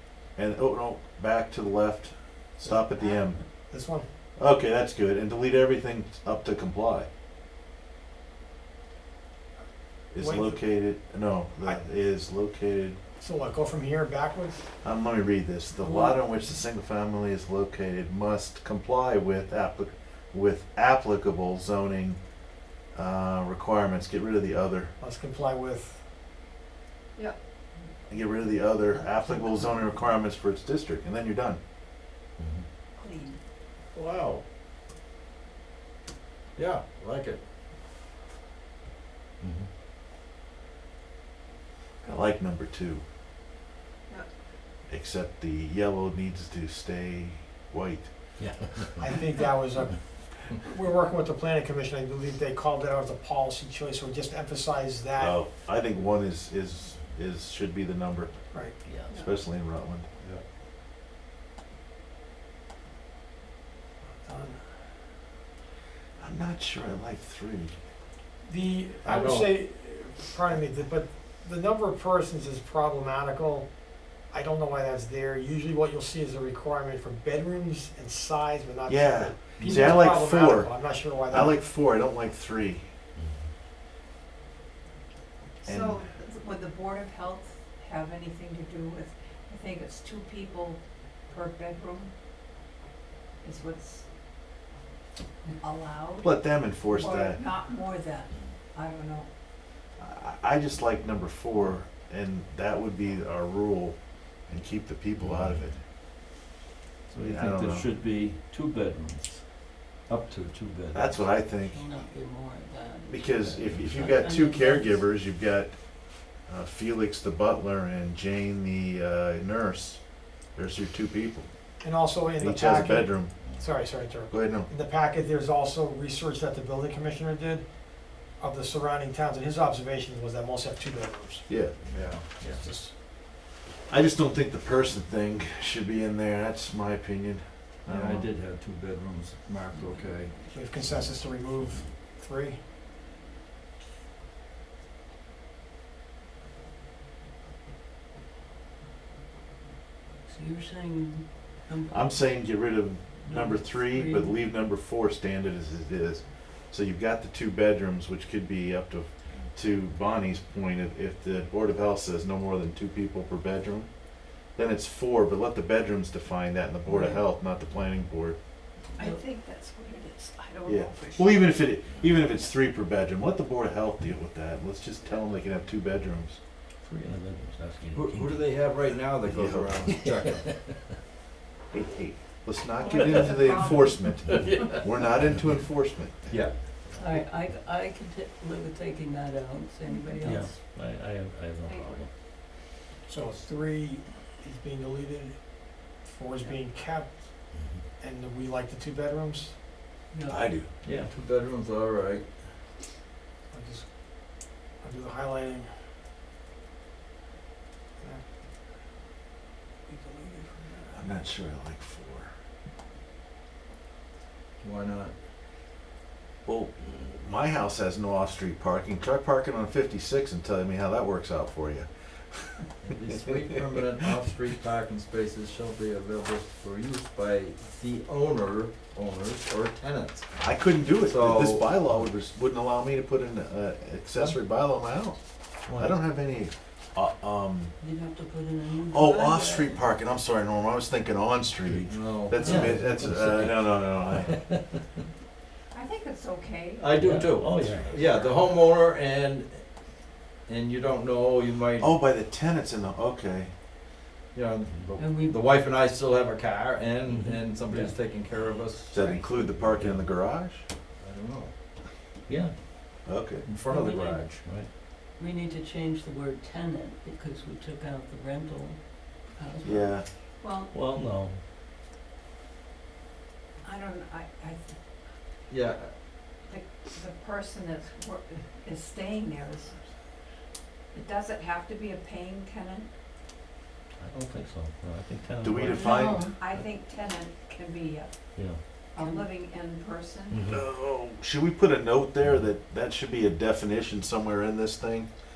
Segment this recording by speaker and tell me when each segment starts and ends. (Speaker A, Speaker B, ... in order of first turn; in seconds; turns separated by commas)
Speaker A: 0.4-3.7, Speaker B: 2.6-3.0, Speaker B: 3.7-4.1, Speaker A: 4.4-7.1, Speaker A: 10.1-13.0, Speaker B: 10.2-10.7, Speaker B: 13.2-14.7, Speaker A: 14.8-22.2, Speaker C: 15.8-16.2, Speaker A: 22.9-24.9, Speaker B: 25.0-26.0, Speaker A: 28.1-31.6, Speaker D: 29.0-29.7, Speaker E: 32.4-32.6, Speaker D: 33.0-33.4, Speaker F: 33.9-34.4, Speaker F: 36.6-37.4, Speaker E: 39.4-39.7, Speaker A: 42.0-43.0, Speaker A: 44.9-48.1, Speaker E: 48.4-49.1, Speaker B: 49.0-55.4, Speaker A: 55.2-60.1, Speaker E: 58.8-59.1, Speaker D: 59.0-59.4, Speaker B: 64.2-64.7, Speaker A: 66.2-67.8, Speaker B: 68.4-81.7, Speaker F: 69.0-69.5, Speaker A: 78.9-82.9, Speaker C: 79.6-80.0, Speaker D: 85.6-92.1, Speaker A: 85.7-86.0, Speaker D: 93.4-94.1, Speaker D: 95.6-99.3, Speaker A: 96.2-97.4, Speaker A: 100.0-105.8, Speaker E: 105.2-105.8, Speaker F: 107.1-111.2, Speaker E: 107.2-107.6, Speaker A: 107.2-107.9, Speaker A: 110.9-111.9, Speaker C: 111.1-115.1, Speaker A: 113.1-121.5, Speaker E: 113.6-113.9, Speaker B: 121.8-131.6, Speaker A: 122.4-123.6, Speaker A: 124.3-124.7, Speaker A: 131.5-131.8, Speaker E: 131.8-132.6, Speaker F: 131.9-132.3, Speaker B: 132.5-132.9, Speaker A: 133.9-138.3, Speaker F: 137.9-140.3, Speaker B: 140.5-142.6, Speaker C: 150.3-152.6, Speaker A: 151.9-168.4, Speaker C: 153.2-154.4, Speaker D: 168.9-171.7, Speaker A: 170.7-176.4, Speaker E: 176.8-178.7, Speaker F: 177.9-180.5, Speaker A: 179.2-179.9, Speaker E: 180.3-180.9, Speaker A: 181.7-186.5, Speaker D: 182.8-184.8, Speaker E: 184.2-184.5, Speaker F: 184.2-184.8, Speaker E: 185.3-185.6, Speaker F: 186.3-186.8, Speaker E: 186.8-187.3, Speaker C: 187.0-190.6, Speaker D: 189.8-190.1, Speaker E: 190.2-192.1, Speaker D: 191.6-192.0, Speaker B: 193.1-199.6, Speaker E: 197.5-197.8, Speaker C: 200.1-200.5, Speaker A: 200.3-200.7, Speaker F: 200.8-202.3, Speaker B: 203.5-205.7, Speaker B: 209.9-211.0, Speaker A: 210.9-212.3, Speaker F: 214.6-215.1, Speaker A: 216.4-223.1, Speaker F: 222.8-231.7, Speaker A: 230.4-237.7, Speaker E: 235.7-236.0, Speaker C: 237.8-239.8, Speaker A: 238.9-244.4, Speaker E: 241.6-245.0, Speaker F: 241.9-243.5, Speaker C: 242.4-242.8, Speaker D: 245.7-246.9, Speaker F: 246.8-249.9, Speaker E: 246.9-247.9, Speaker D: 247.5-248.4, Speaker F: 250.4-251.9, Speaker A: 251.8-253.5, Speaker F: 254.3-260.2, Speaker C: 255.0-255.4, Speaker E: 257.1-258.0, Speaker A: 258.9-260.6, Speaker F: 261.0-261.5, Speaker E: 262.3-263.1, Speaker A: 263.1-263.5, Speaker F: 263.4-264.5, Speaker C: 263.7-264.4, Speaker E: 264.4-264.7, Speaker C: 265.2-270.1, Speaker A: 269.6-270.1, Speaker D: 270.4-270.8, Speaker E: 270.7-271.4, Speaker D: 273.6-274.8, Speaker F: 275.5-275.9, Speaker D: 276.4-279.8, Speaker D: 280.9-282.9, Speaker E: 284.0-286.3, Speaker A: 285.4-286.3, Speaker C: 285.7-286.3, Speaker D: 285.8-290.4, Speaker E: 288.4-288.6, Speaker C: 289.0-289.3, Speaker E: 290.3-290.6, Speaker A: 290.5-295.1